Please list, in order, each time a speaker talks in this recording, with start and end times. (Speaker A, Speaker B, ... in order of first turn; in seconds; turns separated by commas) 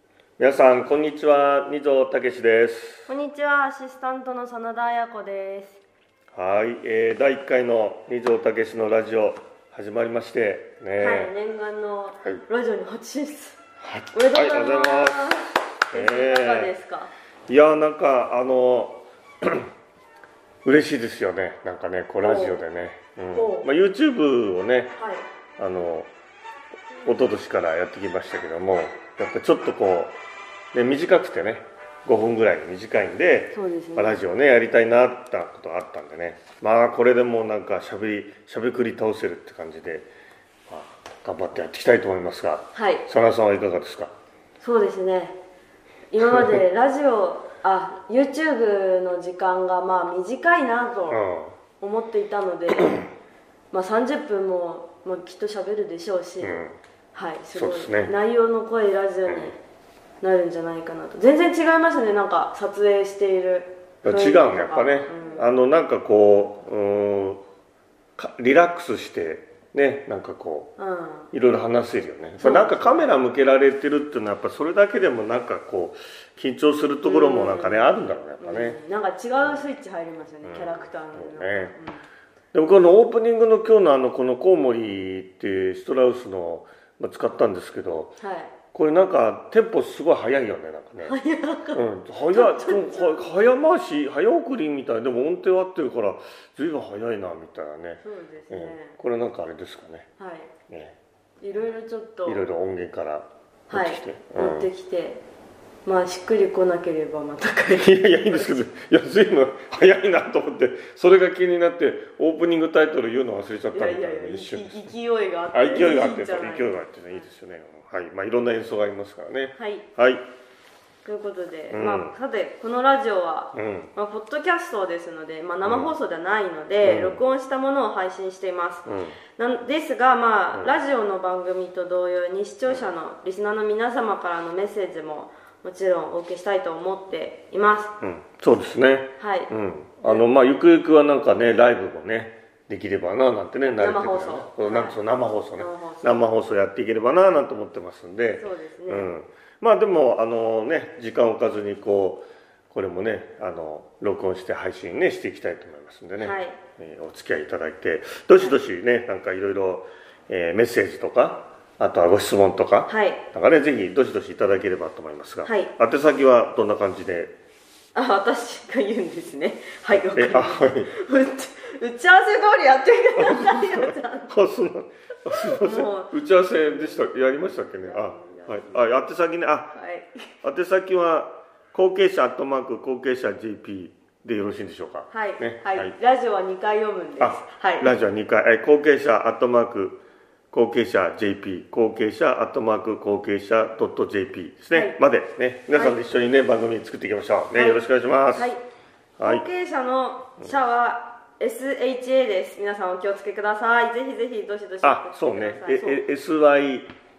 Speaker A: 0.4-3.1, Speaker B: 3.1-5.8, Speaker A: 6.3-11.3, Speaker B: 11.0-13.6, Speaker A: 13.8-16.7, Speaker B: 14.1-17.1, Speaker A: 17.5-19.7, Speaker A: 20.6-24.9, Speaker B: 22.2-22.6, Speaker B: 23.3-23.7, Speaker B: 24.9-25.2, Speaker A: 25.6-26.1, Speaker A: 27.0-30.1, Speaker A: 30.7-40.1, Speaker B: 33.5-34.2, Speaker A: 40.7-44.1, Speaker B: 42.7-43.0, Speaker B: 44.6-45.4, Speaker B: 46.1-51.2, Speaker A: 46.3-46.6, Speaker A: 51.1-51.5, Speaker B: 51.8-53.0, Speaker A: 52.8-53.1, Speaker B: 53.7-56.6, Speaker A: 56.4-56.8, Speaker B: 57.1-59.6, Speaker A: 57.5-58.1, Speaker A: 59.3-59.5, Speaker B: 60.2-65.5, Speaker A: 64.0-67.4, Speaker A: 68.2-70.7, Speaker B: 70.8-71.3, Speaker A: 71.3-78.8, Speaker B: 72.4-73.1, Speaker B: 77.0-77.9, Speaker B: 78.4-82.0, Speaker A: 80.4-81.7, Speaker A: 82.5-88.2, Speaker B: 88.2-88.5, Speaker A: 88.7-91.2, Speaker B: 91.0-93.3, Speaker A: 91.7-100.1, Speaker B: 98.0-99.0, Speaker B: 100.2-100.5, Speaker A: 100.7-101.0, Speaker B: 101.4-102.4, Speaker A: 102.2-104.7, Speaker B: 103.7-105.2, Speaker B: 105.8-108.7, Speaker A: 107.7-114.9, Speaker B: 113.7-116.8, Speaker A: 115.5-120.2, Speaker B: 119.6-119.8, Speaker B: 121.0-137.9, Speaker A: 121.7-122.1, Speaker A: 123.5-123.9, Speaker A: 125.6-125.9, Speaker A: 126.8-127.2, Speaker A: 128.8-129.2, Speaker A: 138.0-167.3, Speaker B: 139.2-139.5, Speaker B: 143.7-145.0, Speaker B: 145.6-146.3, Speaker B: 148.4-149.1, Speaker B: 156.2-156.6, Speaker B: 162.9-163.2, Speaker B: 165.4-165.7, Speaker B: 167.9-174.3, Speaker A: 170.1-170.9, Speaker A: 173.2-179.7, Speaker B: 175.4-178.9, Speaker B: 179.7-180.3, Speaker A: 180.4-185.9, Speaker B: 185.1-187.9, Speaker A: 187.2-190.0, Speaker A: 190.5-198.5, Speaker B: 195.7-196.0, Speaker B: 197.5-198.6, Speaker A: 199.2-199.4, Speaker B: 199.2-206.0, Speaker A: 204.8-206.9